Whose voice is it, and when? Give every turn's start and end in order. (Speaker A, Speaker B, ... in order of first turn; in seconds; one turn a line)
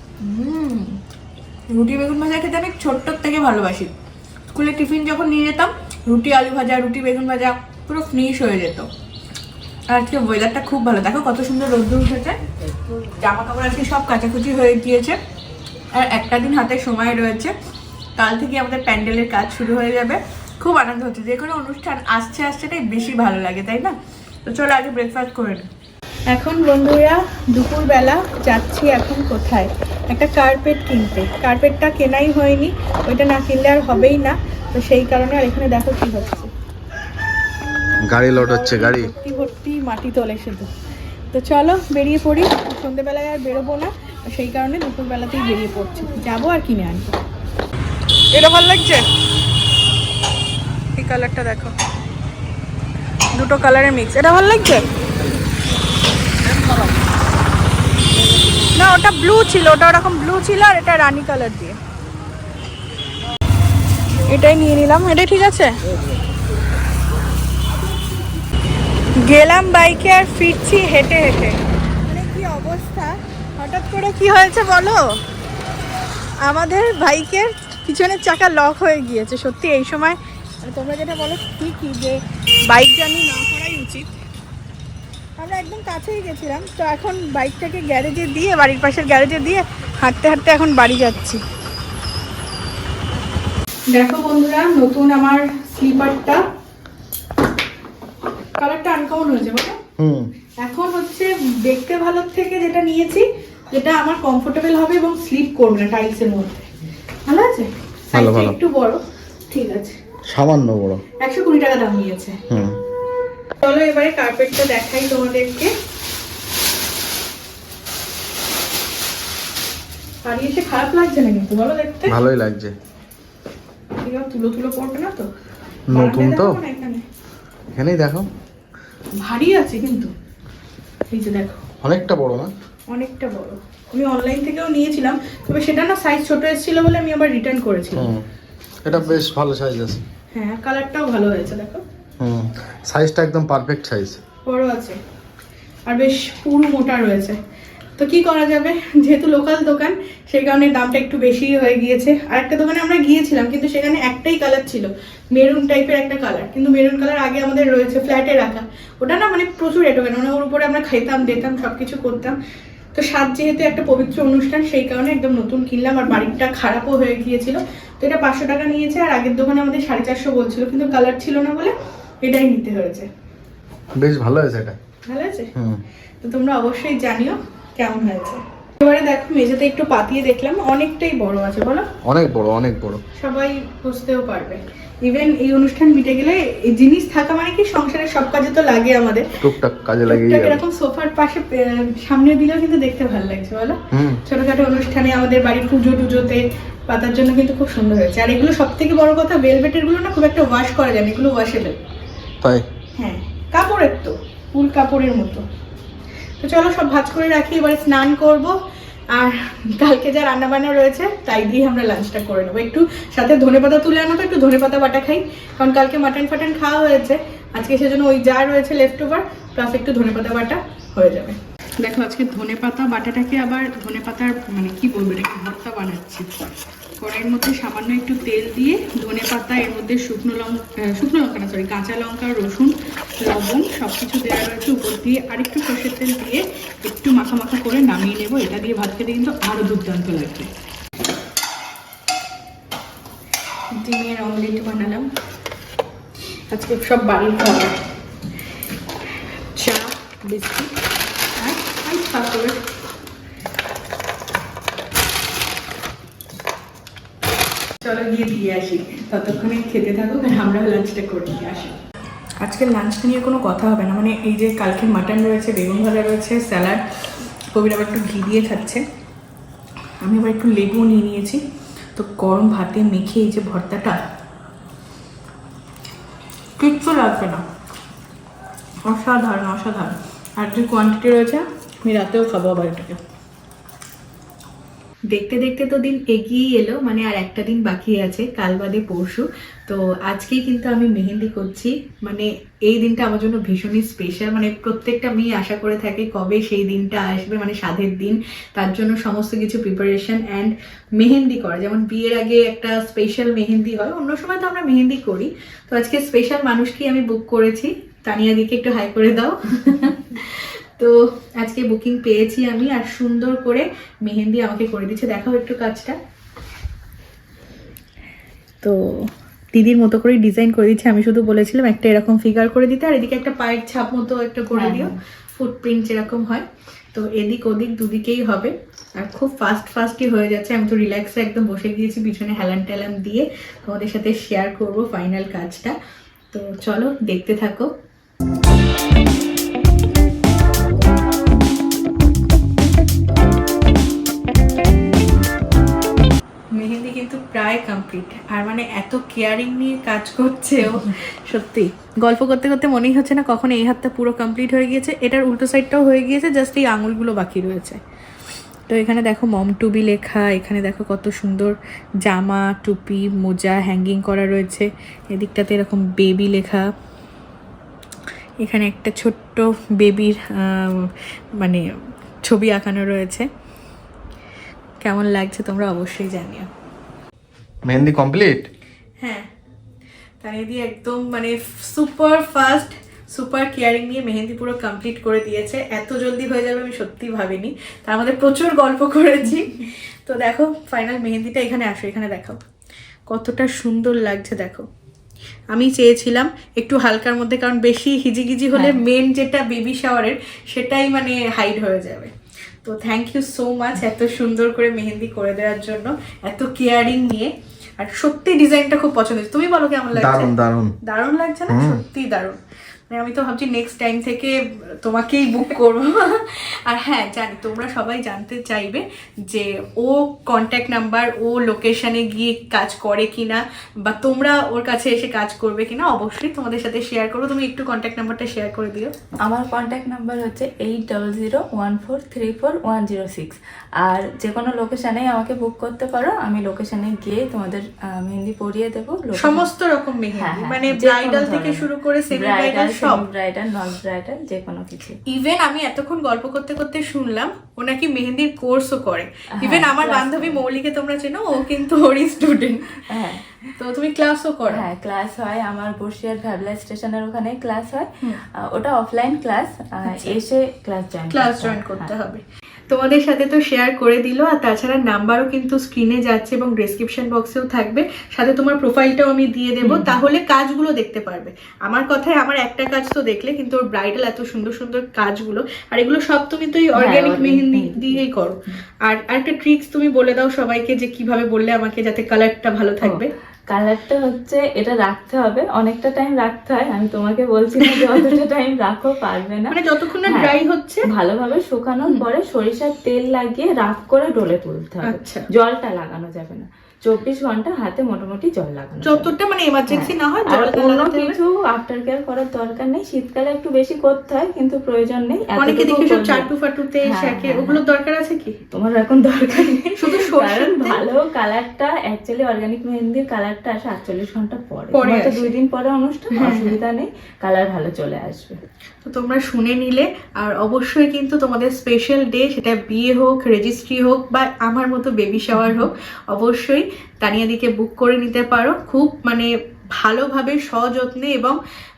Speaker A: 0.2-1.0
Speaker A: 1.7-3.9
Speaker A: 4.5-8.9
Speaker A: 9.9-12.4
Speaker A: 13.2-15.2
Speaker A: 15.9-17.5
Speaker A: 18.2-23.9
Speaker A: 24.5-25.7
Speaker A: 26.3-36.5
Speaker B: 38.0-39.1
Speaker A: 38.3-40.7
Speaker A: 41.3-47.2
Speaker A: 48.3-49.1
Speaker A: 51.0-51.7
Speaker A: 53.4-54.9
Speaker A: 58.7-61.8
Speaker A: 64.3-65.7
Speaker A: 69.2-75.1
Speaker A: 76.5-84.1
Speaker A: 85.4-91.4
Speaker A: 93.9-96.4
Speaker A: 98.6-99.8
Speaker B: 100.0-100.3
Speaker A: 100.6-106.7
Speaker A: 107.3-110.0
Speaker B: 108.1-108.6
Speaker B: 110.3-111.0
Speaker A: 111.2-112.4
Speaker B: 112.5-112.8
Speaker A: 113.6-115.7
Speaker A: 120.2-122.2
Speaker B: 122.1-122.7
Speaker A: 124.0-125.3
Speaker B: 125.9-126.6
Speaker A: 125.9-127.0
Speaker B: 127.8-128.3
Speaker A: 129.2-130.1
Speaker A: 131.1-131.6
Speaker B: 131.8-132.5
Speaker A: 132.9-138.1
Speaker B: 137.9-138.2
Speaker B: 138.8-140.0
Speaker A: 138.9-139.2
Speaker A: 140.3-141.8
Speaker B: 142.2-144.2
Speaker A: 144.5-145.0
Speaker A: 145.9-147.4
Speaker A: 148.0-162.4
Speaker A: 162.9-173.1
Speaker B: 174.0-174.8
Speaker A: 175.1-175.5
Speaker B: 175.6-175.8
Speaker A: 176.2-181.9
Speaker B: 182.1-183.0
Speaker A: 183.2-189.4
Speaker B: 189.4-190.6
Speaker A: 190.1-201.8
Speaker B: 193.9-194.2
Speaker A: 203.0-205.4
Speaker A: 206.4-208.6
Speaker A: 209.1-226.3
Speaker A: 227.0-240.5
Speaker A: 243.8-245.1
Speaker A: 246.5-247.7
Speaker A: 249.5-250.7
Speaker A: 251.4-252.6
Speaker A: 257.8-261.8
Speaker A: 262.4-266.8
Speaker A: 267.6-268.8
Speaker A: 270.0-271.4
Speaker A: 272.0-274.0
Speaker A: 276.6-277.4
Speaker A: 278.9-283.0
Speaker A: 285.1-316.0
Speaker A: 318.6-335.8
Speaker C: 324.5-324.9
Speaker A: 336.3-337.7
Speaker A: 346.6-357.8
Speaker A: 358.7-366.7
Speaker A: 368.4-371.6
Speaker A: 372.3-373.3
Speaker A: 374.8-376.5
Speaker B: 377.7-378.5
Speaker A: 379.0-379.3
Speaker A: 380.2-392.4
Speaker A: 393.1-394.7
Speaker A: 395.5-402.1
Speaker C: 398.5-398.8
Speaker A: 402.6-412.4
Speaker B: 409.9-410.8
Speaker B: 411.5-411.8
Speaker A: 412.9-428.9
Speaker C: 429.3-439.5
Speaker A: 439.2-443.1
Speaker C: 440.2-445.0
Speaker A: 445.1-453.0
Speaker C: 449.4-450.4
Speaker C: 452.9-453.5
Speaker A: 453.6-454.6
Speaker C: 454.5-457.9
Speaker C: 458.4-461.9
Speaker A: 459.9-460.2
Speaker A: 461.1-483.1
Speaker C: 469.6-469.9
Speaker C: 476.8-478.0
Speaker C: 482.8-489.5
Speaker A: 487.6-487.9
Speaker A: 489.5-490.9
Speaker C: 490.1-490.4
Speaker C: 490.9-499.1
Speaker A: 494.8-495.3
Speaker A: 498.8-501.2
Speaker C: 499.7-506.3
Speaker A: 505.4-508.4
Speaker C: 506.9-507.6
Speaker C: 508.5-518.4
Speaker A: 509.8-510.8
Speaker A: 514.7-515.3
Speaker A: 516.1-516.6
Speaker A: 518.9-531.4
Speaker C: 525.3-525.6